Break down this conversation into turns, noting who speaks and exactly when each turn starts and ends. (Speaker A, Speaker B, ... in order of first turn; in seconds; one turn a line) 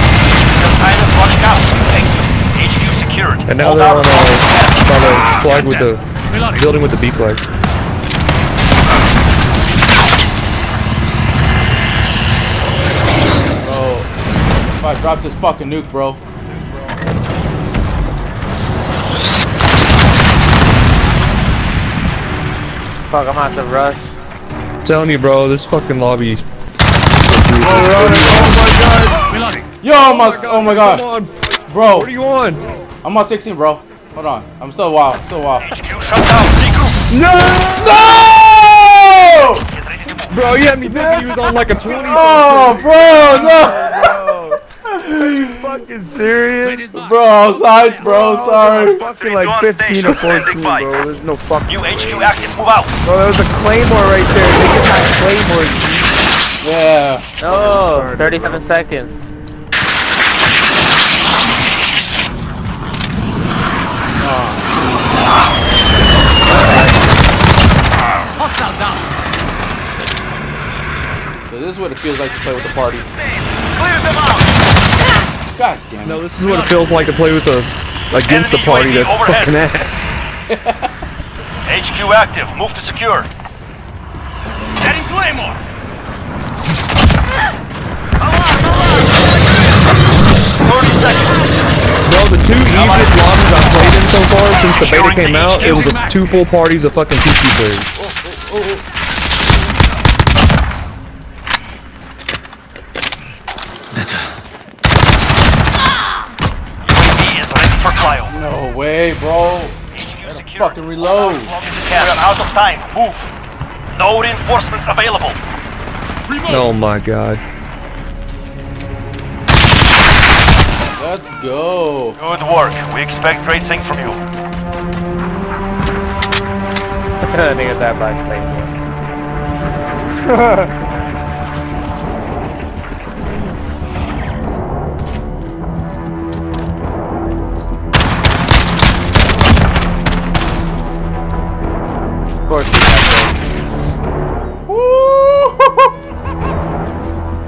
Speaker A: 0.5-4.9
Speaker B: 3.5-7.4
Speaker C: 5.5-6.5
Speaker D: 13.6-16.2
Speaker E: 23.1-24.1
Speaker B: 24.8-26.4
Speaker F: 27.3-29.2
Speaker B: 27.6-28.0
Speaker D: 27.6-28.6
Speaker C: 29.3-29.7
Speaker D: 29.8-31.1
Speaker B: 29.9-31.3
Speaker D: 31.7-32.1
Speaker B: 31.9-32.6
Speaker D: 33.0-35.8
Speaker A: 35.6-37.0
Speaker F: 37.1-38.3
Speaker D: 37.5-39.7
Speaker A: 39.7-40.6
Speaker B: 40.3-42.9
Speaker D: 40.8-44.3
Speaker F: 42.8-44.6
Speaker D: 44.8-45.7
Speaker F: 45.2-46.9
Speaker C: 46.6-48.1
Speaker D: 46.9-49.0
Speaker F: 48.0-56.2
Speaker A: 49.0-50.9
Speaker A: 51.6-52.9
Speaker D: 56.6-57.3
Speaker E: 57.4-59.2
Speaker F: 57.5-58.7
Speaker D: 64.2-64.8
Speaker E: 65.6-67.1
Speaker C: 68.4-69.0
Speaker D: 71.5-73.1
Speaker A: 73.8-74.5
Speaker D: 75.5-76.3
Speaker B: 76.0-80.1
Speaker C: 76.5-76.8
Speaker A: 78.2-79.6
Speaker D: 80.5-80.9
Speaker A: 81.6-83.3
Speaker D: 84.5-85.0
Speaker C: 84.7-85.6
Speaker A: 88.2-89.1
Speaker A: 90.6-91.5
Speaker B: 92.0-97.9
Speaker A: 92.7-93.2
Speaker A: 94.7-95.9
Speaker C: 95.7-96.3
Speaker D: 97.9-98.8
Speaker A: 106.8-108.3
Speaker D: 108.3-111.6
Speaker A: 109.9-113.3
Speaker A: 113.9-115.4
Speaker C: 116.3-116.6
Speaker B: 116.5-117.4
Speaker D: 121.0-122.2
Speaker A: 122.2-124.2
Speaker E: 127.2-128.7
Speaker F: 130.2-130.8
Speaker E: 142.4-143.4
Speaker D: 144.7-145.9